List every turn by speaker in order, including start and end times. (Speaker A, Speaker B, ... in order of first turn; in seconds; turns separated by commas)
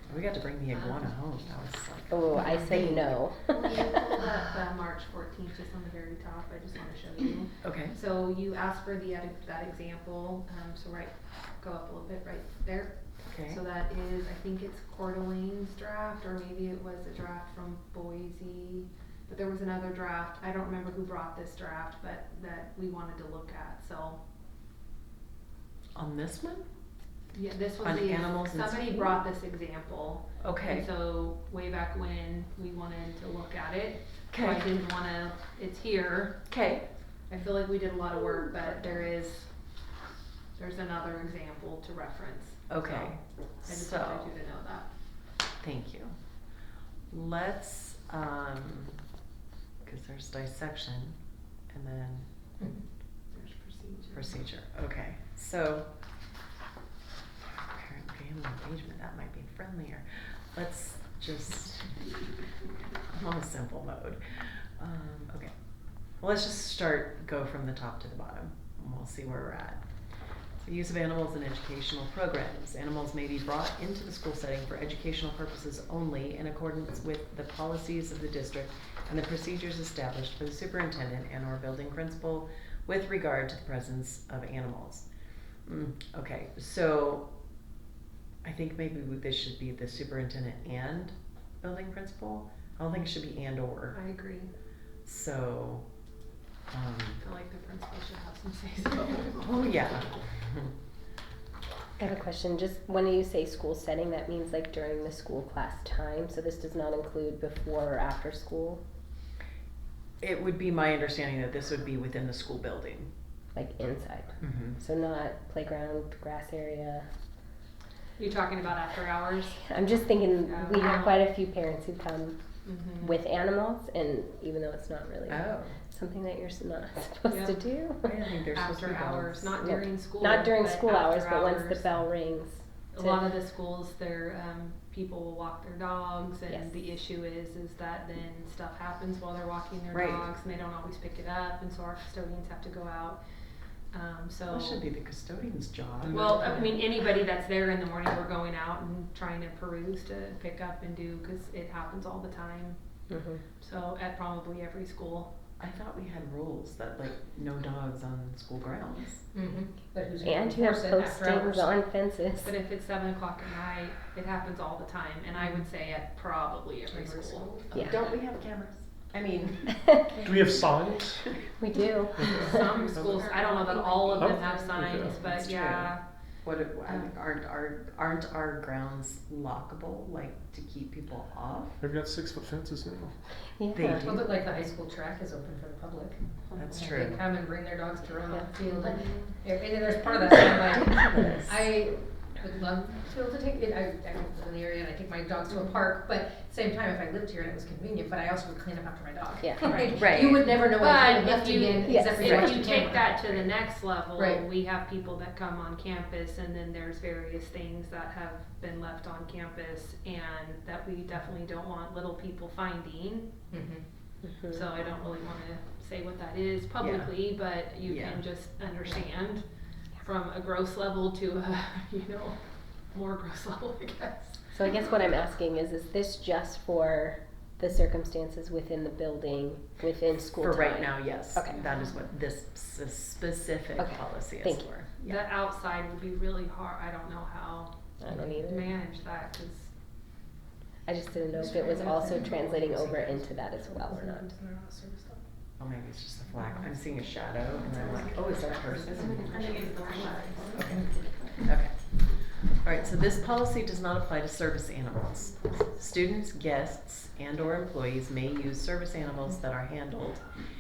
Speaker A: 0.1-3.2, Speaker B: 2.1-4.0, Speaker C: 2.3-2.9, Speaker C: 3.5-24.2, Speaker A: 7.6-8.0, Speaker A: 13.2-13.6, Speaker A: 25.9-26.7, Speaker C: 27.3-36.4, Speaker A: 27.8-29.2, Speaker A: 30.4-30.9, Speaker A: 34.3-34.7, Speaker A: 36.5-36.9, Speaker C: 37.3-39.5, Speaker C: 40.6-44.9, Speaker A: 42.7-44.3, Speaker A: 45.6-46.1, Speaker A: 47.1-49.0, Speaker A: 49.8-51.2, Speaker A: 51.7-52.3, Speaker C: 53.3-54.4, Speaker A: 54.1-55.9, Speaker A: 57.4-61.9, Speaker A: 63.1-65.5, Speaker A: 66.2-69.8, Speaker A: 70.6-85.1, Speaker A: 85.7-87.3, Speaker A: 88.4-94.0, Speaker C: 93.9-94.5, Speaker A: 95.1-95.8, Speaker A: 96.7-97.2, Speaker C: 97.2-99.6, Speaker A: 99.4-100.7, Speaker B: 102.0-108.8, Speaker A: 110.2-113.1, Speaker B: 113.5-117.1, Speaker A: 114.4-114.8, Speaker C: 118.2-119.7, Speaker B: 119.6-122.4, Speaker C: 120.4-121.3, Speaker C: 122.7-123.2, Speaker B: 123.0-128.2, Speaker A: 125.3-125.8, Speaker C: 127.3-127.6, Speaker A: 128.0-129.6, Speaker C: 128.5-132.1, Speaker B: 129.6-133.2, Speaker C: 132.9-143.2, Speaker A: 139.9-140.2, Speaker C: 143.9-144.8, Speaker A: 144.5-146.4, Speaker C: 146.1-152.8, Speaker B: 153.1-153.4, Speaker C: 153.6-155.3, Speaker A: 155.6-159.2, Speaker D: 159.3-161.7, Speaker B: 160.2-162.5, Speaker C: 162.4-167.5, Speaker D: 166.9-167.7, Speaker A: 167.7-169.9, Speaker E: 170.2-171.3, Speaker B: 171.6-172.9, Speaker E: 172.2-175.4, Speaker C: 172.2-176.0, Speaker B: 173.7-174.5, Speaker A: 175.3-181.8, Speaker E: 181.8-183.2, Speaker B: 183.6-184.1, Speaker A: 183.7-184.2, Speaker D: 184.0-204.4, Speaker A: 186.6-187.2, Speaker C: 188.7-189.3, Speaker A: 191.0-191.6, Speaker B: 199.4-199.9, Speaker A: 200.0-200.4, Speaker C: 200.7-213.3, Speaker B: 201.8-202.5, Speaker D: 213.5-213.8, Speaker B: 214.2-214.7, Speaker C: 214.5-219.4, Speaker A: 216.8-217.3, Speaker A: 217.8-218.2, Speaker C: 220.0-224.4, Speaker B: 224.5-231.6, Speaker A: 230.4-235.2, Speaker C: 231.5-231.9, Speaker B: 233.8-234.6, Speaker C: 235.0-237.7, Speaker B: 238.0-238.7, Speaker C: 238.4-239.7, Speaker B: 240.9-244.3, Speaker D: 241.3-245.2, Speaker A: 245.6-251.8, Speaker C: 248.3-251.4, Speaker D: 250.6-251.0, Speaker A: 252.3-260.3